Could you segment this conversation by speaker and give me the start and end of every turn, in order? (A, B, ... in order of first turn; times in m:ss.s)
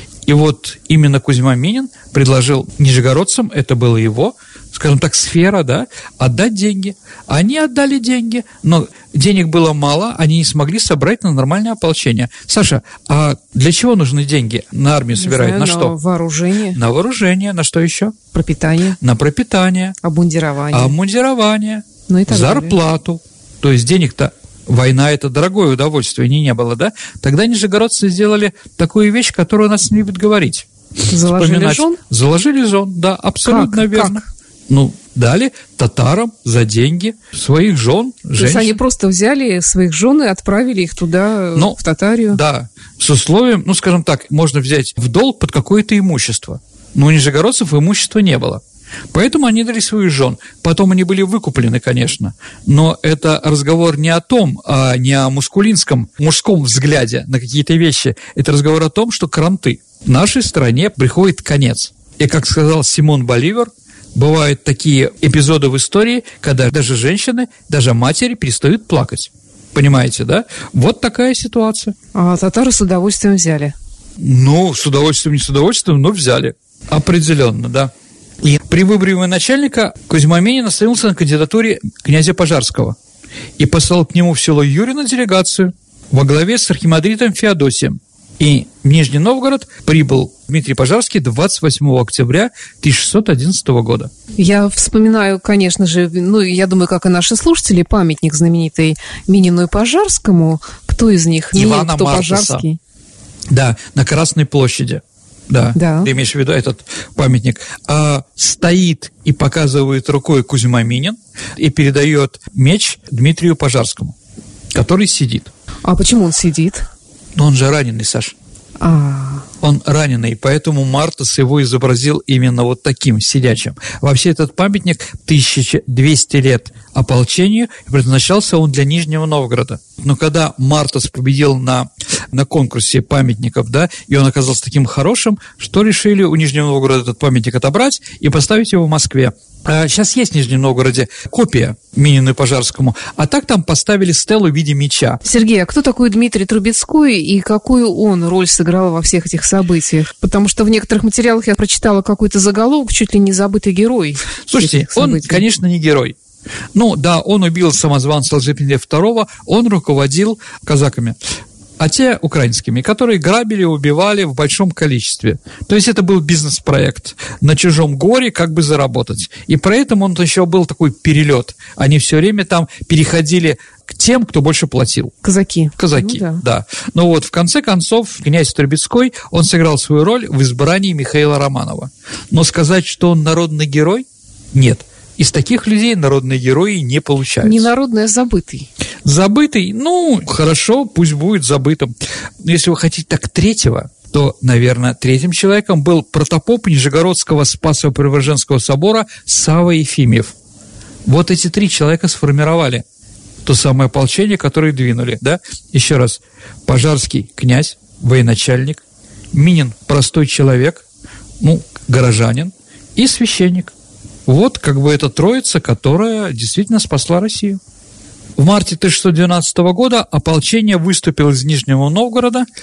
0:00.3-0:15.9 A
0:15.2-0:16.8 B
0:16.7-0:18.2 A
0:18.3-0:19.0 B
0:19.0-0:20.0 A
0:20.0-0:21.0 B
0:20.7-0:30.7 A
0:22.1-0:22.7 B
0:31.1-0:32.0 B
0:31.2-0:38.8 A
0:33.5-0:34.2 B
0:38.4-0:42.4 B
0:42.3-0:48.6 A
0:49.1-1:12.0 A
1:12.1-1:13.7 B
1:14.2-1:17.9 A
1:18.4-1:23.0 A
1:23.6-1:34.1 A
1:34.4-1:42.8 B
1:41.5-1:42.6 A
1:43.5-1:54.2 A
1:45.8-1:46.1 B
1:54.7-1:55.5 A
1:55.8-1:56.9 B
1:57.4-1:58.4 A
1:58.8-1:59.5 B
1:59.6-2:25.2 A
2:25.2-2:35.4 B
2:34.5-2:36.2 A
2:36.7-2:41.2 A
2:41.8-2:55.1 A
2:55.2-2:56.4 B
2:55.8-3:07.7 A
3:07.4-3:08.7 B
3:09.0-3:20.4 A
3:21.1-3:22.8 A
3:23.4-3:28.8 A
3:29.3-3:30.8 A
3:31.4-3:33.7 A
3:34.3-3:37.6 A
3:38.4-3:42.5 A